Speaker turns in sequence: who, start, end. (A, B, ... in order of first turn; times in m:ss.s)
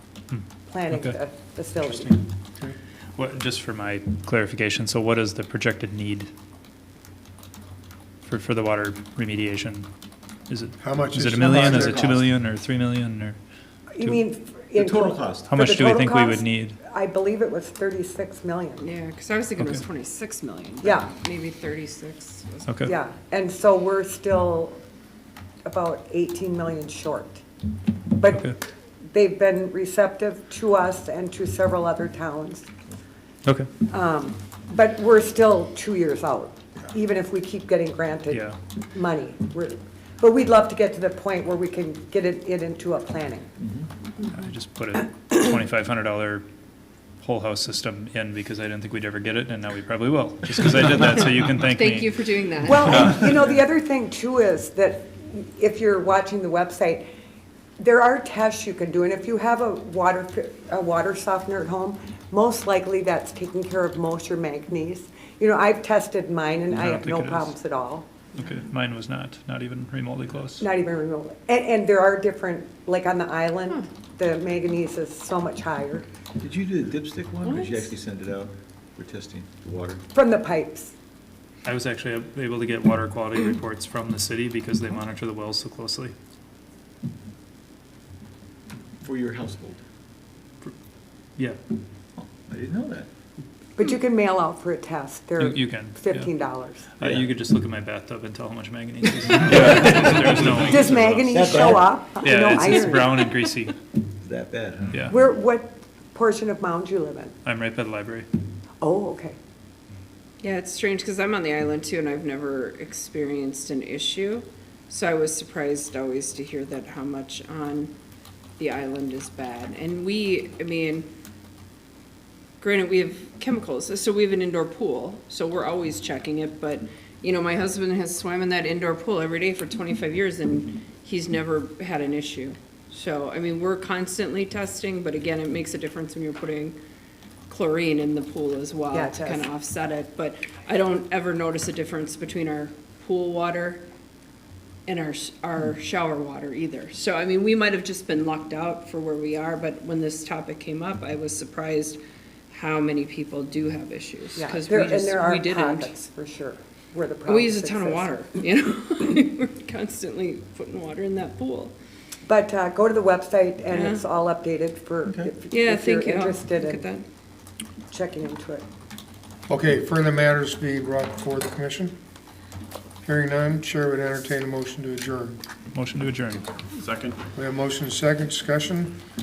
0:00.3-0:01.2 A
0:00.7-0:02.2 B
0:01.8-0:02.2 A
0:03.2-0:06.3 A
0:08.2-0:09.9 A
0:10.5-0:13.4 A
0:10.8-0:12.0 C
0:11.4-0:12.3 D
0:13.9-0:18.8 B
0:14.7-0:15.5 D
0:15.5-0:16.8 A
0:18.8-0:22.9 E
0:20.8-0:21.1 B
0:22.8-0:24.8 B
0:25.6-0:27.4 B
0:28.1-0:28.6 B
0:29.1-0:32.7 B
0:33.4-0:33.7 A
0:33.9-0:43.5 B
0:38.3-0:38.6 A
0:44.3-0:46.4 A
0:47.2-0:52.1 A
0:51.6-0:53.2 E
0:52.6-0:57.0 B
0:57.8-1:08.1 B
1:06.7-1:07.5 A
1:08.4-1:10.6 A
1:10.6-1:16.0 B
1:16.4-1:20.0 D
1:17.5-1:17.8 E
1:20.1-1:20.9 B
1:21.6-1:26.1 A
1:29.0-1:29.8 D
1:32.2-1:33.1 D
1:33.8-1:36.9 B
1:35.4-1:36.3 A
1:37.0-1:41.4 A
1:39.7-1:40.3 D
1:40.6-1:43.3 B
1:41.3-1:42.0 D
1:42.2-1:43.8 A
1:44.2-1:45.1 D
1:45.1-1:47.3 B
1:47.4-1:48.3 A
1:48.8-1:49.4 B
1:50.4-1:57.9 E
1:58.6-2:01.1 E
2:02.6-2:16.8 E
2:17.5-2:23.8 E
2:18.9-2:19.4 B
2:24.8-2:35.9 E
2:34.4-2:38.1 B
2:37.3-2:41.8 E
2:42.2-2:46.8 B
2:43.7-2:44.0 E
2:45.5-2:47.0 E
2:47.9-2:48.6 B
2:49.5-2:52.0 C
2:53.0-2:55.4 C
2:55.7-2:56.5 A
2:56.8-2:57.2 D
2:57.3-2:59.0 C